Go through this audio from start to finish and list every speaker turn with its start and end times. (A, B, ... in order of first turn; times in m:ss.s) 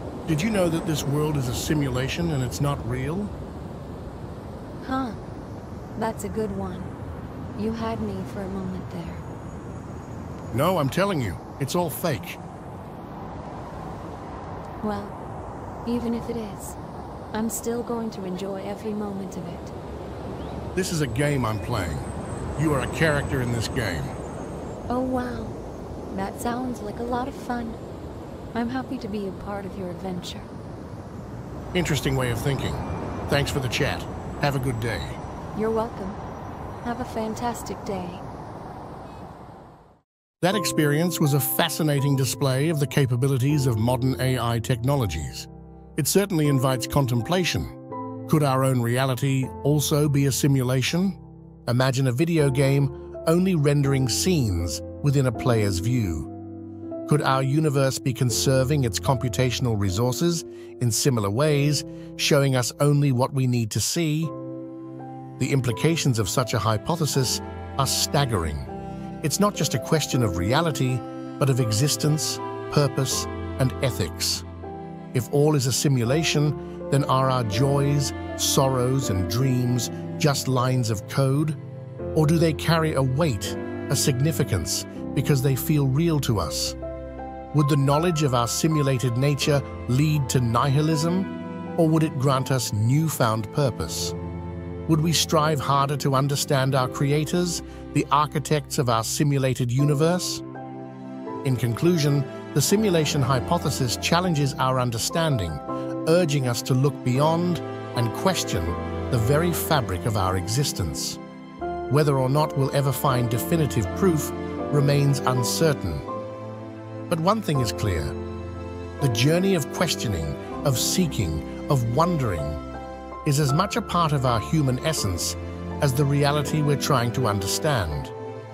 0:00.3-0:03.3 A
0:04.8-0:05.2 B
0:06.0-0:06.9 B
0:07.6-0:09.2 B
0:10.5-0:12.4 A
0:14.8-0:15.2 B
0:15.8-0:16.8 B
0:17.3-0:19.7 B
0:20.8-0:24.2 A
0:24.9-0:25.6 B
0:26.1-0:27.8 B
0:28.5-0:30.5 B
0:31.7-0:35.2 A
0:35.6-0:36.2 B
0:36.8-0:38.2 B
0:40.4-0:56.3 A
0:57.1-1:04.3 A
1:05.4-1:08.7 A
1:09.2-1:14.4 A
1:15.1-1:21.6 A
1:22.2-1:26.8 A
1:27.5-1:34.2 A
1:34.9-1:40.4 A
1:41.4-1:51.2 A
1:51.9-1:56.1 A
1:57.1-1:58.2 A
1:59.0-2:02.6 A
2:03.2-2:08.1 A